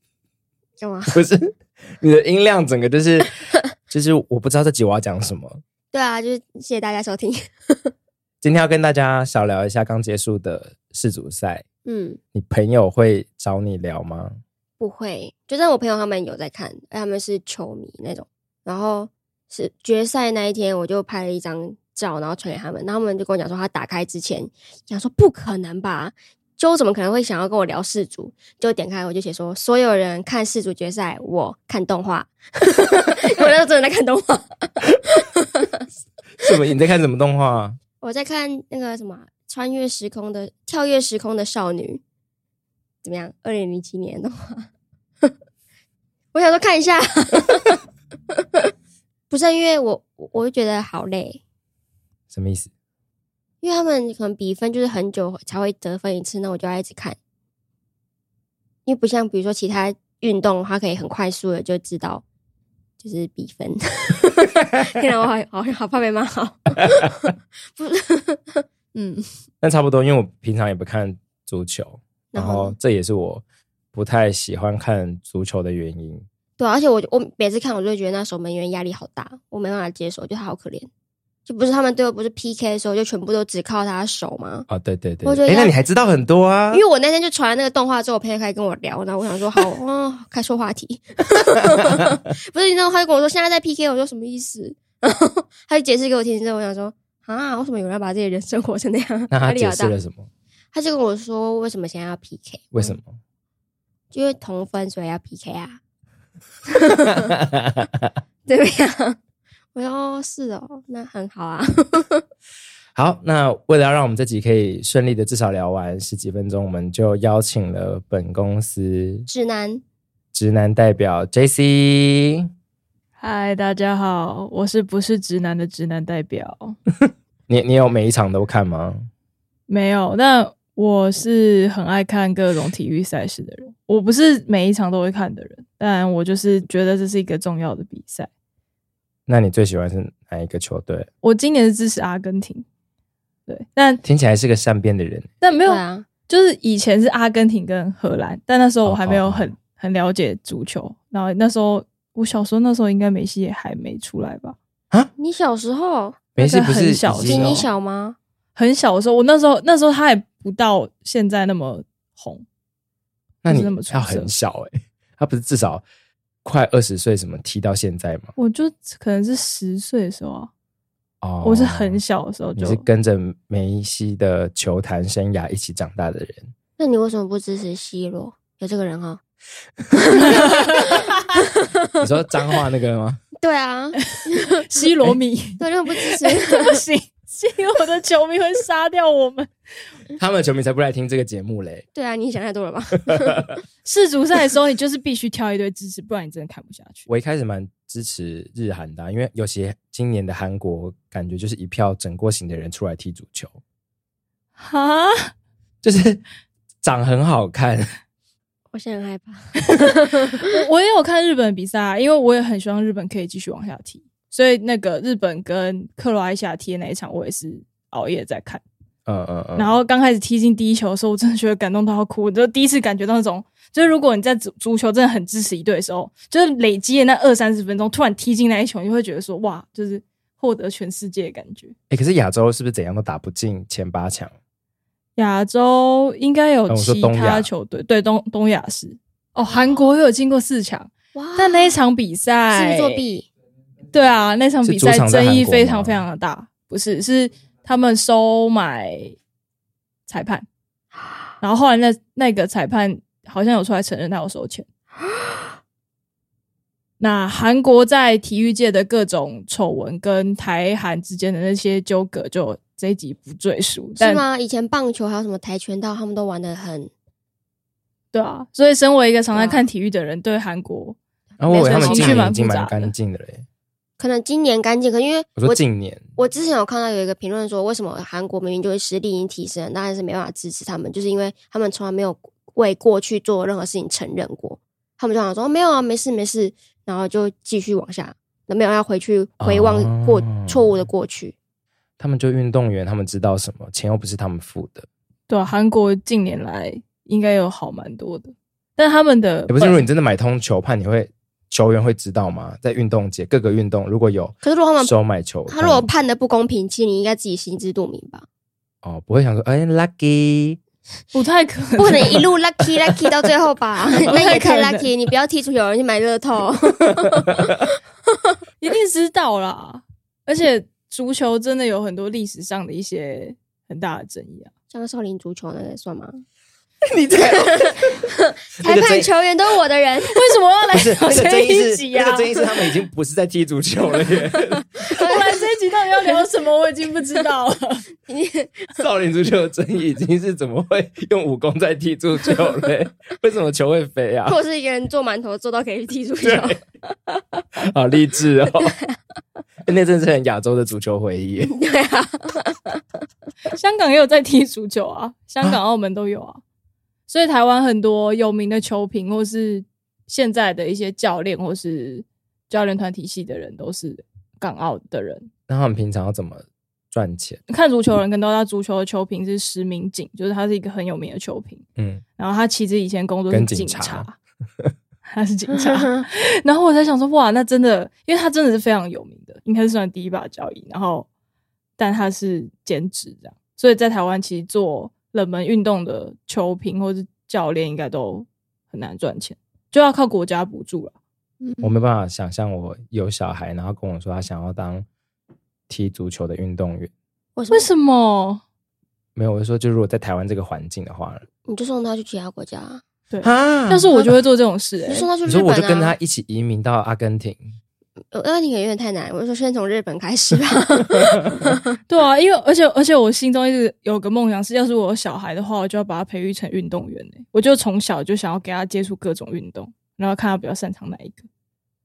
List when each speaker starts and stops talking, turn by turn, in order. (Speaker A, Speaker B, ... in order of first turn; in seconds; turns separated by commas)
Speaker A: 0.8-1.1, Speaker B: 1.1-5.6, Speaker A: 5.9-7.9, Speaker B: 8.4-11.6, Speaker A: 11.8-12.2, Speaker B: 12.3-14.4, Speaker A: 14.8-35.6, Speaker B: 36.4-37.8, Speaker A: 38.0-42.0, Speaker A: 43.0-44.7, Speaker A: 46.3-47.8, Speaker A: 49.3-51.4, Speaker B: 52.3-52.7, Speaker A: 53.6-57.2, Speaker A: 58.9-62.2, Speaker A: 63.0-69.2, Speaker B: 69.6-76.2, Speaker A: 72.3-72.8, Speaker A: 76.6-80.9, Speaker A: 81.5-84.7, Speaker B: 84.7-86.8, Speaker A: 85.2-85.7, Speaker A: 86.7-100.0, Speaker B: 99.3-100.3, Speaker A: 100.7-103.0, Speaker B: 102.7-103.2, Speaker A: 104.1-105.8, Speaker A: 106.8-107.2, Speaker B: 107.2-107.8, Speaker A: 108.5-109.2, Speaker A: 109.7-112.2, Speaker B: 112.9-119.3, Speaker A: 119.3-119.8, Speaker B: 120.3-122.5, Speaker C: 123.2-126.8, Speaker B: 127.5-129.1, Speaker C: 129.7-138.3, Speaker B: 139.3-141.1, Speaker C: 141.2-142.6, Speaker C: 143.5-144.0, Speaker B: 144.0-145.3, Speaker C: 145.4-154.6, Speaker A: 145.6-146.1, Speaker B: 148.8-149.5, Speaker A: 155.2-156.2, Speaker B: 156.3-157.6, Speaker C: 156.4-157.7, Speaker A: 157.2-158.2, Speaker C: 158.6-162.4, Speaker B: 163.4-165.8, Speaker C: 163.5-164.3, Speaker B: 166.4-168.3, Speaker C: 168.3-170.5, Speaker B: 171.2-172.0, Speaker C: 171.4-172.8, Speaker B: 172.6-176.5, Speaker A: 176.8-179.2, Speaker C: 180.3-181.0, Speaker A: 181.3-181.9, Speaker B: 182.0-183.2, Speaker A: 183.4-184.6, Speaker C: 184.2-189.5, Speaker A: 185.6-186.8, Speaker B: 190.2-191.8, Speaker A: 191.9-193.5, Speaker C: 193.8-197.1, Speaker B: 197.1-203.6, Speaker C: 204.6-205.3, Speaker B: 205.8-206.2, Speaker B: 206.8-207.9, Speaker A: 208.7-210.4, Speaker C: 210.4-218.6, Speaker B: 219.1-219.7, Speaker C: 219.6-231.7, Speaker B: 231.9-234.3, Speaker C: 235.2-243.0, Speaker B: 236.7-237.5, Speaker A: 241.1-241.8, Speaker A: 242.5-243.3, Speaker C: 243.9-249.1, Speaker B: 244.6-246.0, Speaker C: 250.1-250.4, Speaker C: 251.4-254.6, Speaker A: 255.0-255.6, Speaker C: 257.0-264.2, Speaker A: 264.0-266.9, Speaker C: 268.1-271.0, Speaker A: 269.3-269.6, Speaker B: 271.4-273.4, Speaker A: 271.5-272.3, Speaker C: 271.5-272.9, Speaker A: 274.0-275.6, Speaker B: 275.4-276.0, Speaker A: 276.1-291.3, Speaker B: 289.4-290.7, Speaker B: 292.0-294.9, Speaker C: 295.3-299.8, Speaker B: 299.5-305.9, Speaker A: 304.4-304.9, Speaker A: 305.5-308.2, Speaker B: 308.8-310.6, Speaker C: 311.1-312.3, Speaker A: 311.8-317.6, Speaker C: 313.9-314.9, Speaker C: 318.6-324.5, Speaker A: 324.7-326.2, Speaker B: 326.9-328.0, Speaker A: 328.5-330.1, Speaker B: 328.6-329.1, Speaker C: 330.1-332.8, Speaker B: 330.7-334.7, Speaker C: 334.9-337.8, Speaker A: 334.9-335.4, Speaker A: 338.1-338.8, Speaker B: 338.8-344.4, Speaker A: 344.2-347.2, Speaker B: 346.2-346.6, Speaker B: 347.6-348.8, Speaker B: 349.6-351.5, Speaker A: 351.5-352.8, Speaker C: 353.5-356.4, Speaker C: 357.1-365.3, Speaker B: 365.5-367.4, Speaker C: 367.5-371.6, Speaker B: 371.8-372.0, Speaker C: 372.2-374.1, Speaker B: 373.3-374.1, Speaker C: 375.1-381.1, Speaker A: 375.5-376.1, Speaker C: 381.8-390.9, Speaker A: 391.4-391.8, Speaker B: 391.6-394.9, Speaker B: 395.7-396.9, Speaker A: 397.4-397.7, Speaker C: 397.5-398.4, Speaker B: 399.1-401.2, Speaker A: 401.5-402.8, Speaker C: 403.1-405.1, Speaker B: 403.2-404.1, Speaker A: 404.9-405.9, Speaker B: 405.2-407.5, Speaker A: 408.1-411.6, Speaker C: 411.9-421.2